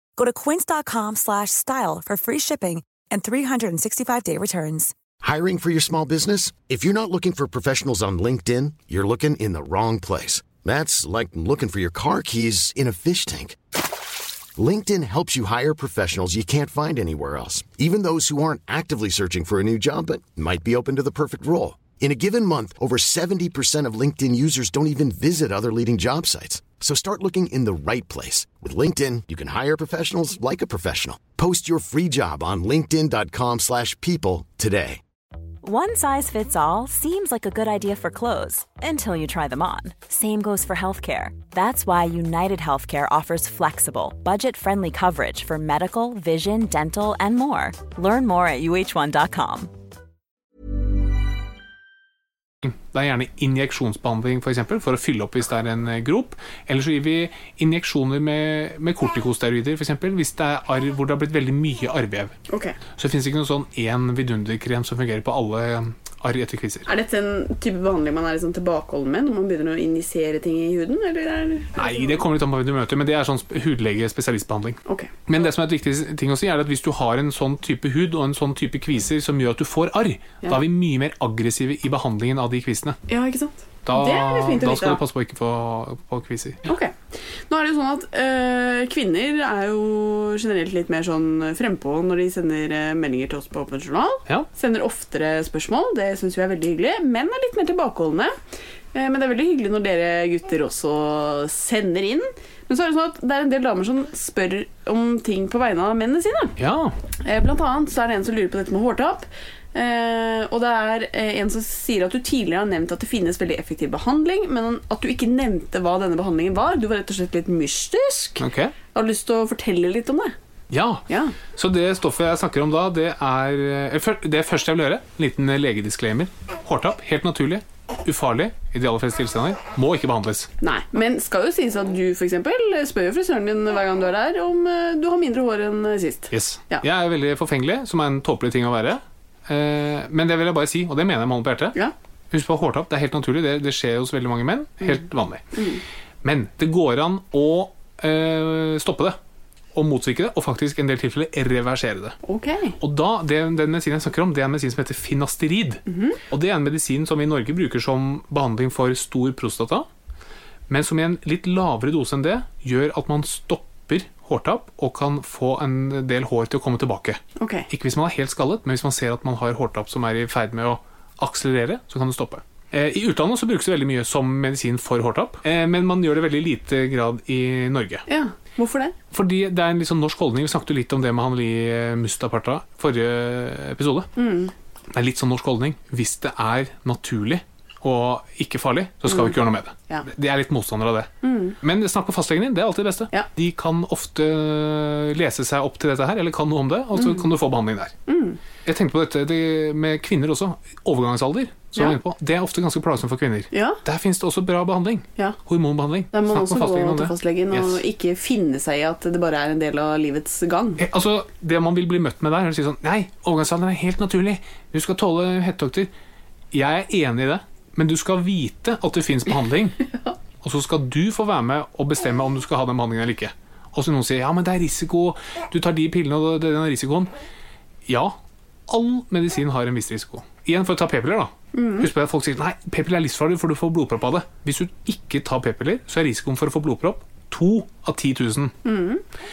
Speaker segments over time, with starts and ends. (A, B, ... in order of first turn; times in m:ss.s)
0:00.2-0:04.9 A
0:05.2-0:13.6 B
0:14.6-0:35.0 B
0:35.6-0:49.7 C
0:52.6-1:02.4 D
1:02.5-1:02.8 E
1:03.0-1:06.9 D
1:06.9-1:12.0 E
1:11.8-1:23.0 D
1:14.8-1:15.1 E
1:23.1-1:25.0 E
1:23.8-1:26.7 D
1:26.6-1:27.0 E
1:27.5-1:38.3 E
1:38.9-1:46.6 E
1:46.6-1:47.0 D
1:47.2-2:00.3 E
1:58.4-1:58.7 D
2:00.7-2:10.5 D
2:01.1-2:01.4 E
2:10.6-2:16.8 E
2:16.3-2:21.8 D
2:22.3-2:25.6 D
2:25.5-2:25.8 E
2:26.2-2:29.2 D
2:29.7-2:32.2 D
2:32.2-2:32.8 E
2:32.8-2:39.8 D
2:35.9-2:36.2 E
2:40.7-2:58.0 D
2:47.4-2:47.7 E
2:58.1-2:58.9 E
2:59.1-3:04.1 D
3:04.2-3:04.5 E
3:04.9-3:11.1 D
3:09.1-3:09.4 E
3:11.2-3:11.6 E
3:11.6-3:17.9 D
3:17.0-3:17.2 E
3:18.1-3:18.4 E
3:18.6-3:27.8 D
3:23.5-3:23.8 E
3:26.1-3:30.8 E
3:30.8-3:35.9 D
3:36.5-3:39.8 D
3:40.4-3:47.1 D
3:47.8-3:48.2 D
3:48.7-3:58.6 D
3:51.5-3:51.9 E
3:58.6-3:59.0 E